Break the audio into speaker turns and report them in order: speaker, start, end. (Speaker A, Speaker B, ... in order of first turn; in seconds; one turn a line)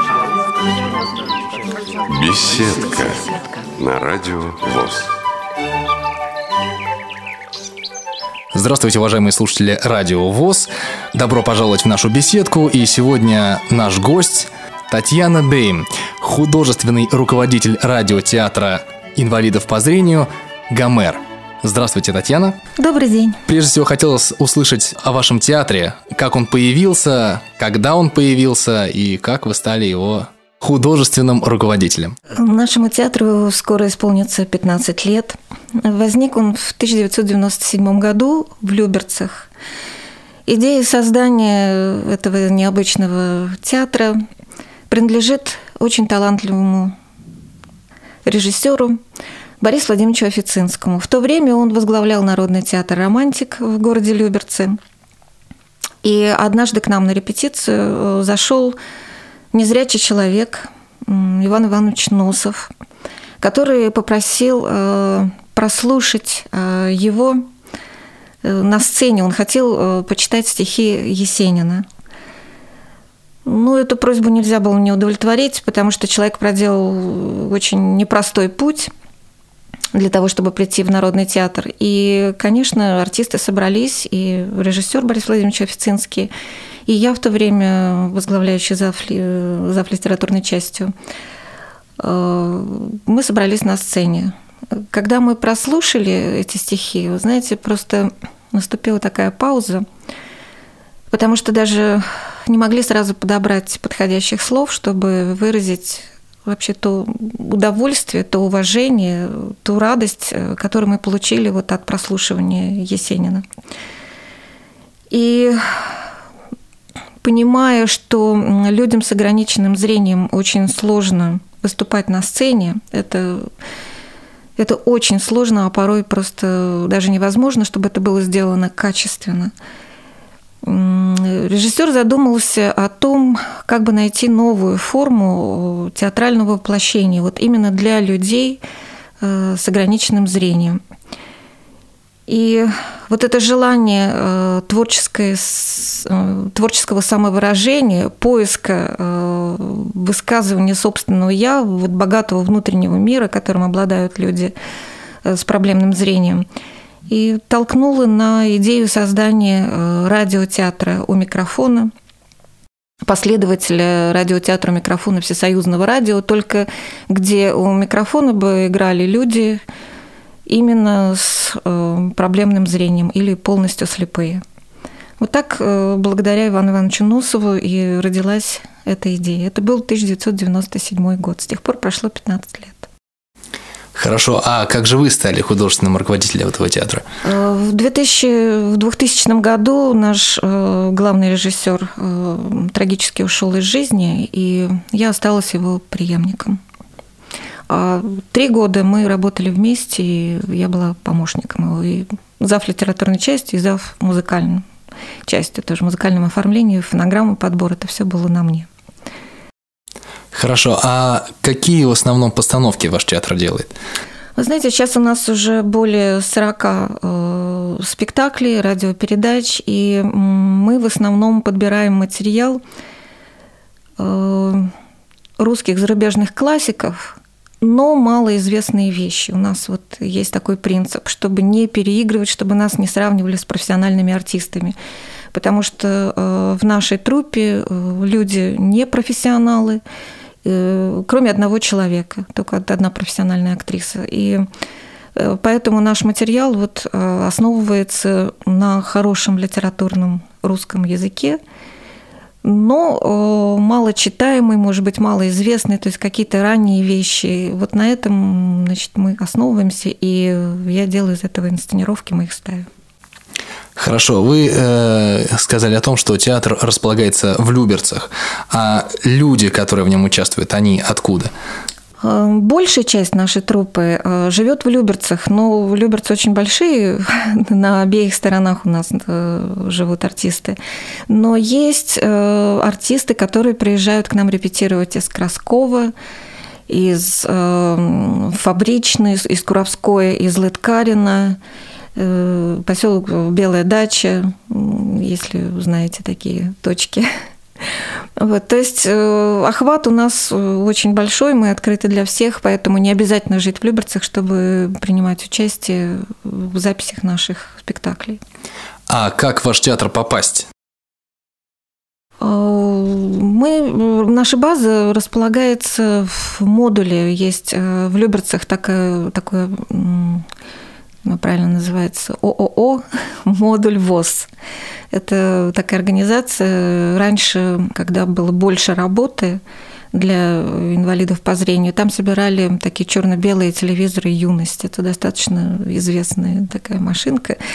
Speaker A: 2.1-5.1
Speaker B: 8.5-22.6
Speaker C: 22.8-23.4
Speaker B: 23.5-32.1
Speaker C: 32.4-39.5
Speaker C: 40.5-44.2
Speaker C: 44.9-46.9
Speaker C: 48.2-49.0
Speaker C: 49.6-54.8
Speaker C: 56.0-58.8
Speaker C: 59.5-62.7
Speaker C: 63.4-67.5
Speaker C: 68.4-71.8
Speaker C: 73.5-78.9
Speaker C: 79.9-86.3
Speaker C: 86.9-90.9
Speaker C: 92.0-99.8
Speaker C: 101.1-113.5
Speaker C: 115.1-115.9
Speaker C: 117.2-123.5
Speaker C: 124.6-129.5
Speaker C: 130.6-138.6
Speaker C: 139.2-140.8
Speaker C: 142.3-154.5
Speaker C: 155.2-156.4
Speaker C: 157.1-161.9
Speaker C: 163.0-169.6
Speaker C: 170.5-174.4
Speaker C: 175.2-182.9
Speaker B: 183.9-187.0
Speaker C: 187.2-196.6
Speaker C: 197.7-204.7
Speaker C: 205.3-208.7
Speaker B: 210.3-213.7
Speaker C: 214.4-222.6
Speaker C: 224.0-224.7
Speaker C: 225.4-234.8
Speaker C: 235.3-239.8
Speaker C: 240.4-244.5
Speaker C: 245.2-251.4
Speaker C: 252.4-262.7
Speaker B: 263.8-271.3
Speaker C: 272.0-280.6
Speaker C: 281.1-285.9
Speaker C: 286.7-291.4
Speaker C: 292.0-297.1
Speaker C: 298.2-308.2
Speaker B: 308.9-310.5
Speaker C: 312.2-320.2
Speaker C: 321.1-324.3
Speaker C: 324.9-329.4
Speaker C: 329.9-337.4